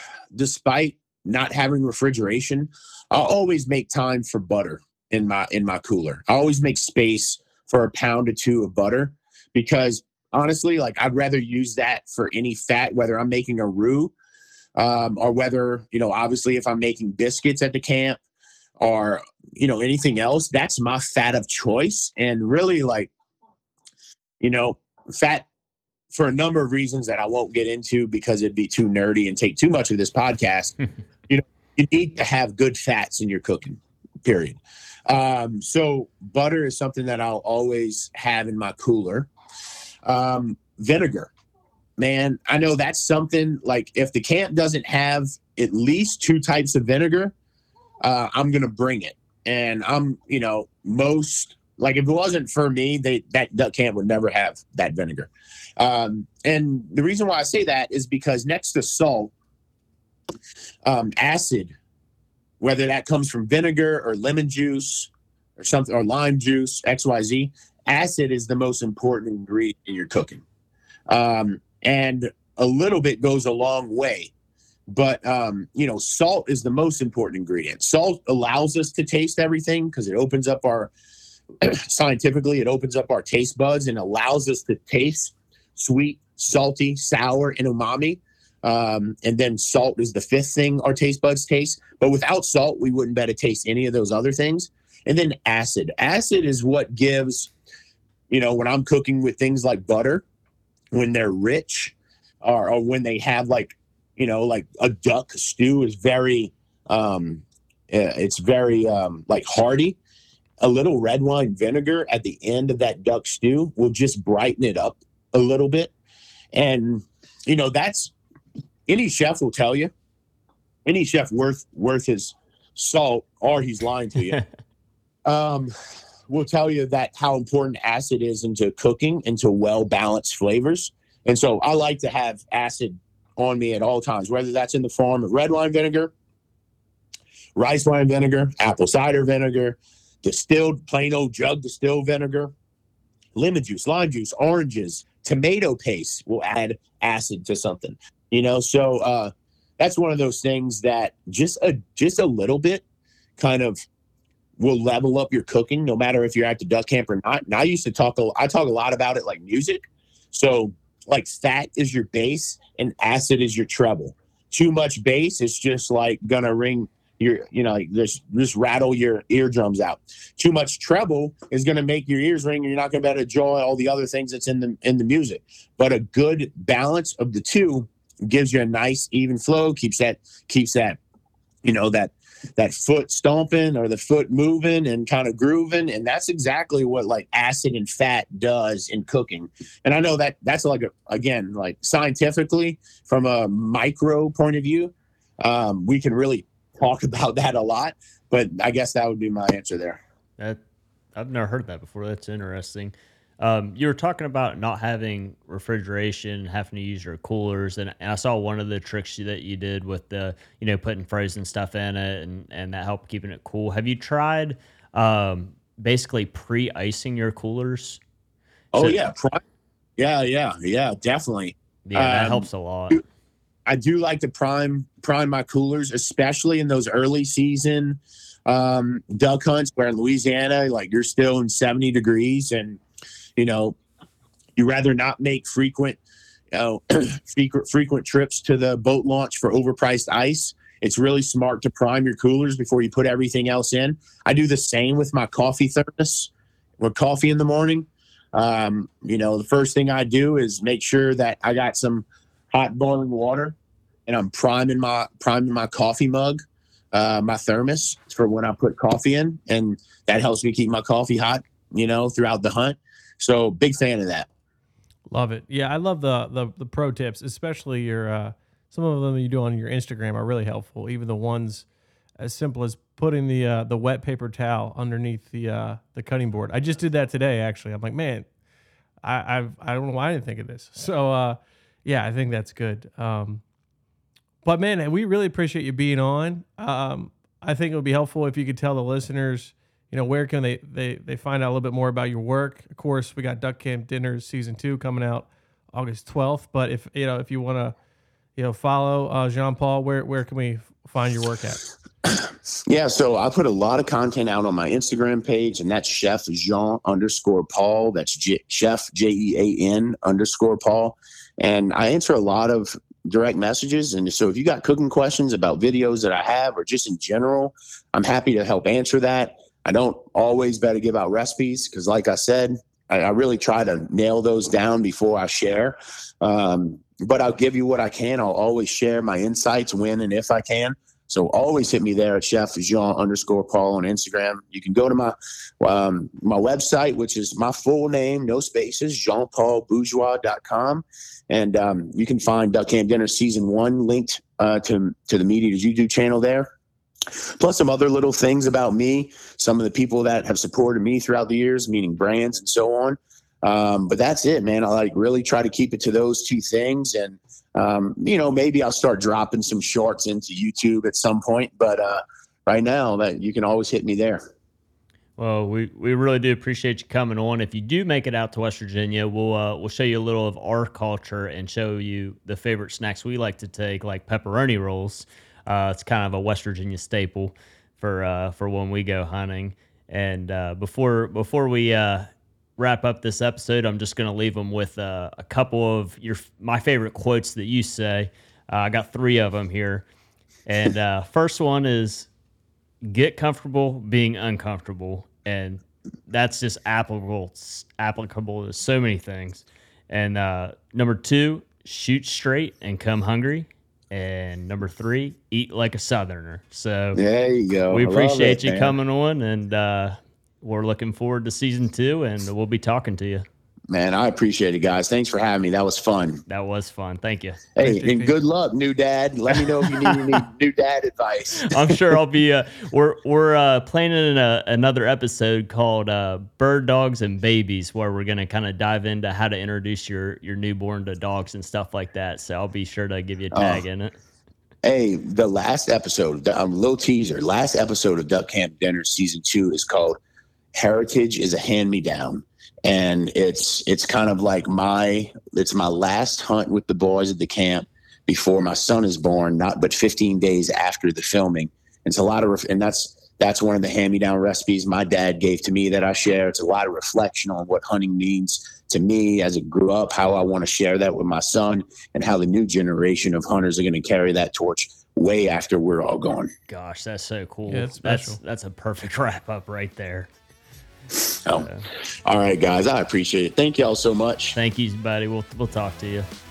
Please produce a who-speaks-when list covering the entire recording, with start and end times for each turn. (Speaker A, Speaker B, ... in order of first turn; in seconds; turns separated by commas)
Speaker A: 0.3-14.1, Speaker A: 14.8-18.2, Speaker A: 18.8-23.1, Speaker A: 24.4-25.5, Speaker A: 26.1-30.8, Speaker A: 31.3-39.3, Speaker A: 40.1-41.3, Speaker A: 42.0-47.3, Speaker A: 48.0-59.3, Speaker A: 60.9-61.7, Speaker A: 62.6-70.4, Speaker A: 71.1-74.3, Speaker A: 74.9-80.9, Speaker A: 81.6-97.5, Speaker A: 98.3-100.2, Speaker A: 100.9-110.0, Speaker A: 110.6-115.9, Speaker A: 116.5-118.1, Speaker A: 118.9-119.9, Speaker A: 120.8-124.4, Speaker A: 125.2-125.7, Speaker A: 126.3-136.1, Speaker A: 137.6-142.5, Speaker A: 143.4-152.8, Speaker A: 153.4-153.8, Speaker A: 154.6-181.0, Speaker A: 181.6-200.0, Speaker B: 201.2-218.0, Speaker A: 218.7-219.4, Speaker A: 220.0-223.0, Speaker B: 221.9-223.0, Speaker A: 223.7-232.8, Speaker A: 233.4-233.8, Speaker A: 234.6-236.0, Speaker A: 236.5-256.4, Speaker A: 256.9-264.3, Speaker C: 265.1-271.7, Speaker C: 272.2-278.3, Speaker C: 279.0-283.4, Speaker C: 284.4-297.7, Speaker C: 298.4-301.7, Speaker A: 302.1-346.5, Speaker A: 347.4-364.2, Speaker B: 365.2-389.9, Speaker B: 390.5-392.1, Speaker B: 392.9-407.0, Speaker A: 406.9-408.8, Speaker B: 407.7-413.2, Speaker A: 413.7-416.2, Speaker B: 416.3-418.1, Speaker A: 417.6-422.0, Speaker B: 419.3-420.0, Speaker B: 421.4-433.9, Speaker A: 433.3-433.6, Speaker A: 434.6-440.0, Speaker A: 440.6-466.3, Speaker B: 466.5-470.1, Speaker C: 467.5-468.2, Speaker B: 471.3-471.7, Speaker A: 472.1-474.4, Speaker B: 474.4-476.1